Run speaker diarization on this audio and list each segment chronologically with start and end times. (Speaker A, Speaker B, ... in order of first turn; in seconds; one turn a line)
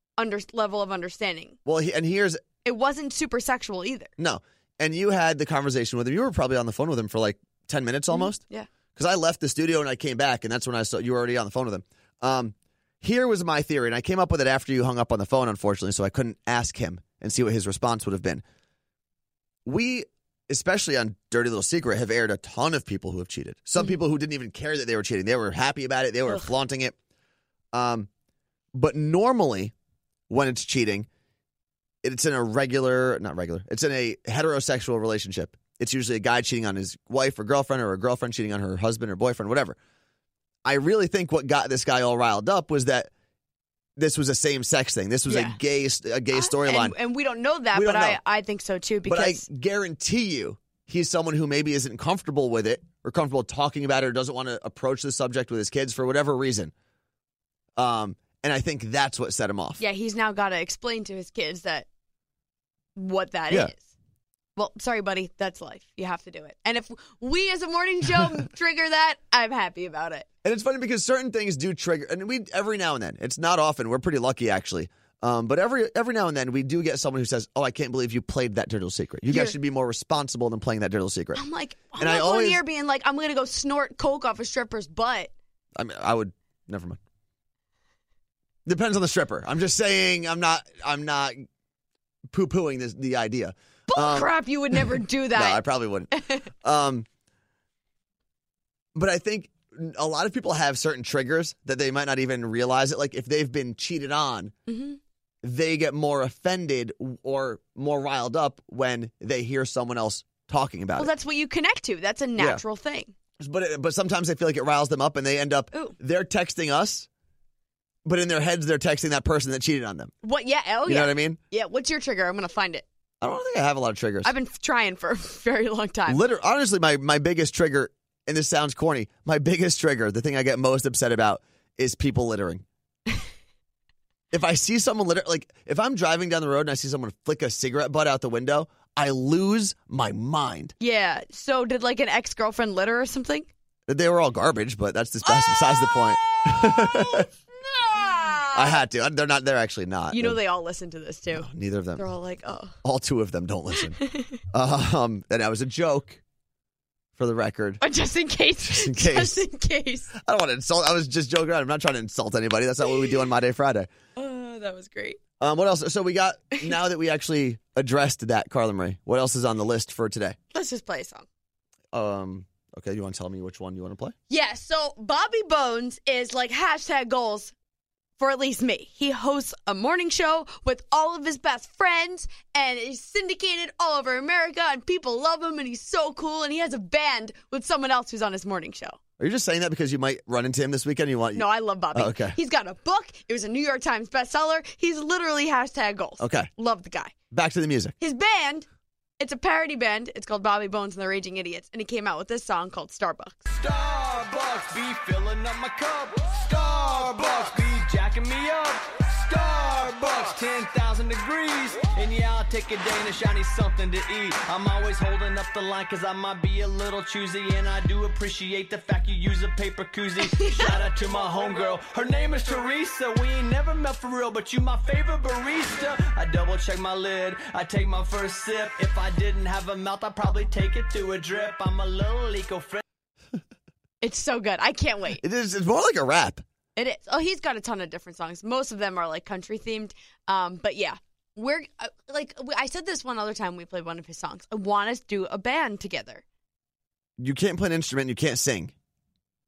Speaker A: 0.2-1.6
Speaker B: 1.6-2.4
Speaker A: 2.6-4.1
Speaker B: 4.2-8.4
Speaker A: 8.1-8.7
Speaker B: 8.9-18.4
Speaker B: 19.6-26.9
Speaker B: 27.7-28.1
Speaker B: 28.7-29.7
Speaker B: 30.3-31.1
Speaker B: 32.0-39.8
Speaker B: 40.6-43.1
Speaker B: 44.0-47.0
Speaker A: 45.3-45.6
Speaker A: 46.3-49.5
Speaker B: 47.7-48.2
Speaker B: 49.1-56.7
Speaker B: 57.8-59.8
Speaker A: 59.8-61.9
Speaker A: 63.0-63.9
Speaker A: 64.5-70.2
Speaker B: 70.4-81.4
Speaker A: 79.3-79.5
Speaker A: 81.3-85.3
Speaker B: 82.0-82.6
Speaker B: 85.8-87.0
Speaker B: 88.7-91.5
Speaker B: 92.3-94.3
Speaker A: 93.9-96.5
Speaker B: 95.3-97.1
Speaker B: 98.9-104.5
Speaker A: 104.7-105.0
Speaker B: 105.4-111.1
Speaker A: 111.0-113.1
Speaker B: 113.4-117.1
Speaker B: 118.0-120.1
Speaker A: 120.2-122.8
Speaker B: 120.8-121.4
Speaker B: 123.2-124.3
Speaker A: 124.2-126.2
Speaker B: 126.1-132.6
Speaker B: 134.3-140.7
Speaker A: 140.8-143.5
Speaker B: 143.9-147.2
Speaker A: 145.2-148.8
Speaker B: 148.5-150.4
Speaker A: 150.1-152.8
Speaker B: 151.3-152.0
Speaker B: 152.8-154.0
Speaker A: 153.7-154.4
Speaker B: 154.5-156.2
Speaker B: 157.2-157.8
Speaker A: 157.8-160.1
Speaker B: 158.6-159.4
Speaker B: 160.2-163.9
Speaker A: 164.2-165.2
Speaker B: 165.4-170.4
Speaker A: 170.5-171.2
Speaker B: 171.9-174.1
Speaker A: 174.3-177.5
Speaker A: 178.2-189.0
Speaker B: 189.2-192.3
Speaker A: 191.3-197.1
Speaker B: 196.2-196.5
Speaker B: 197.3-197.9
Speaker A: 198.0-198.7
Speaker A: 199.2-203.4
Speaker C: 203.5-232.8
Speaker A: 220.2-220.7
Speaker A: 234.0-235.2
Speaker B: 235.2-236.4
Speaker A: 236.8-246.2
Speaker B: 247.2-248.7